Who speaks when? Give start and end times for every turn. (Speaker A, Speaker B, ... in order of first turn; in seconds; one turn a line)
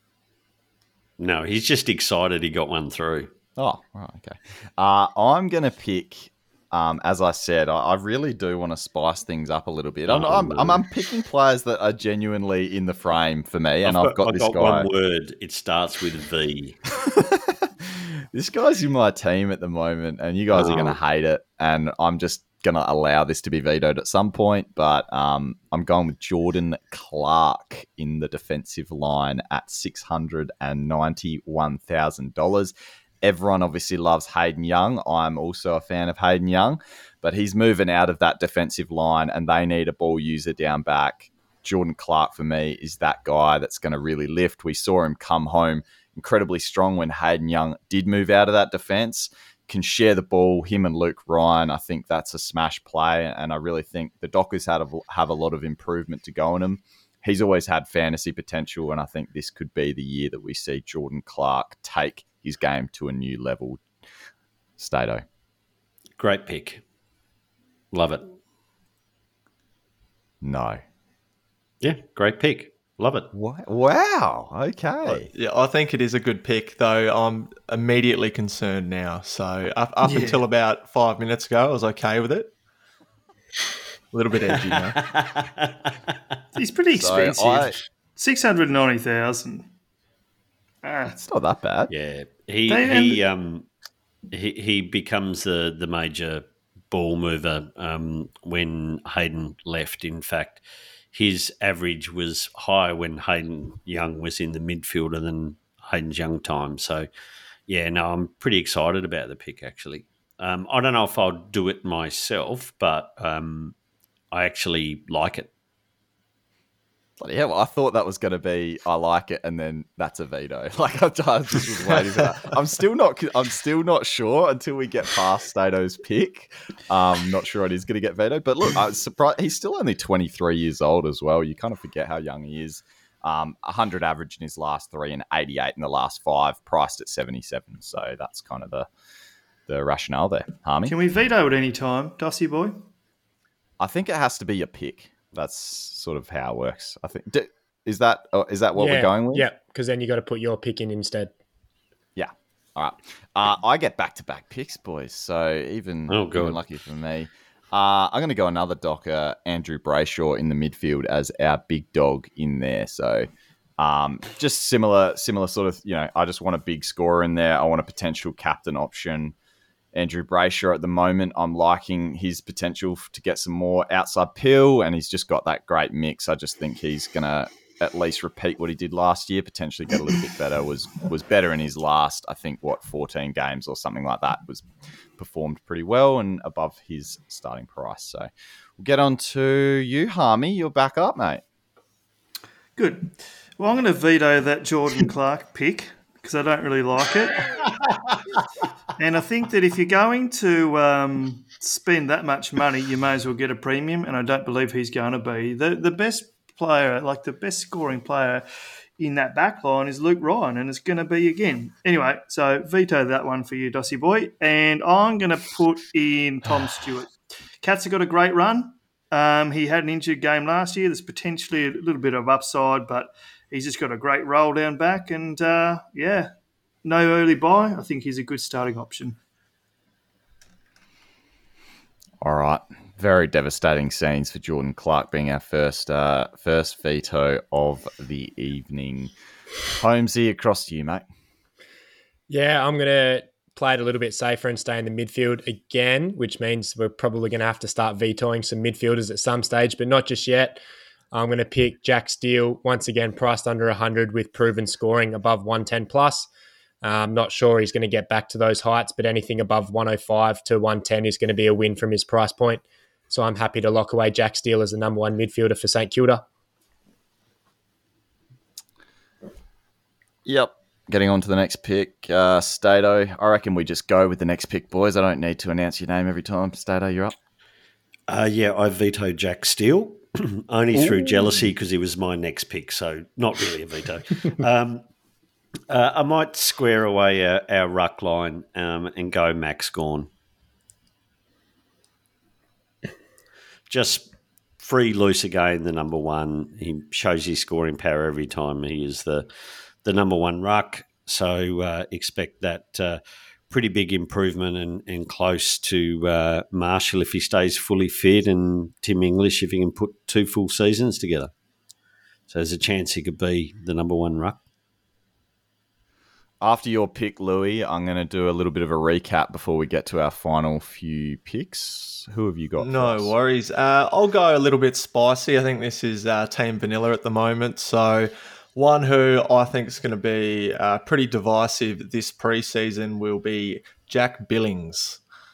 Speaker A: 1.2-3.3
Speaker B: 3.6-14.9
Speaker A: 10.1-10.8
Speaker A: 13.8-16.8
Speaker B: 17.0-63.8
Speaker A: 20.5-21.0
Speaker B: 64.8-65.2
Speaker A: 66.2-66.8
Speaker A: 67.9-68.3
Speaker B: 70.4-70.8
Speaker A: 71.8-73.3
Speaker B: 73.3-75.3
Speaker C: 75.1-82.5
Speaker D: 80.0-80.4
Speaker C: 84.1-85.0
Speaker A: 85.0-86.2
Speaker D: 86.6-89.7
Speaker B: 87.0-87.7
Speaker D: 90.8-91.2
Speaker B: 91.1-91.9
Speaker A: 91.9-93.7
Speaker D: 92.7-93.2
Speaker A: 94.3-100.6
Speaker A: 101.1-107.1
Speaker A: 107.7-113.8
Speaker A: 114.3-115.5
Speaker B: 117.2-138.9
Speaker B: 139.7-141.0
Speaker D: 140.9-142.9
Speaker B: 143.8-149.5
Speaker E: 148.8-151.3
Speaker B: 152.2-163.3
Speaker A: 156.1-156.6
Speaker B: 163.8-169.3
Speaker B: 169.9-184.7
Speaker B: 185.2-191.4
Speaker D: 192.8-197.5
Speaker D: 199.0-208.5
Speaker D: 209.0-226.3
Speaker D: 226.8-229.2
Speaker B: 232.2-239.1
Speaker B: 239.8-241.0
Speaker E: 242.3-256.3
Speaker E: 256.8-266.2
Speaker B: 270.3-277.2
Speaker A: 278.1-284.8
Speaker B: 280.7-281.4
Speaker A: 285.7-290.1
Speaker A: 293.7-294.1
Speaker A: 294.6-299.3
Speaker A: 299.8-311.3
Speaker A: 312.3-314.4
Speaker B: 316.4-323.1
Speaker C: 322.6-335.0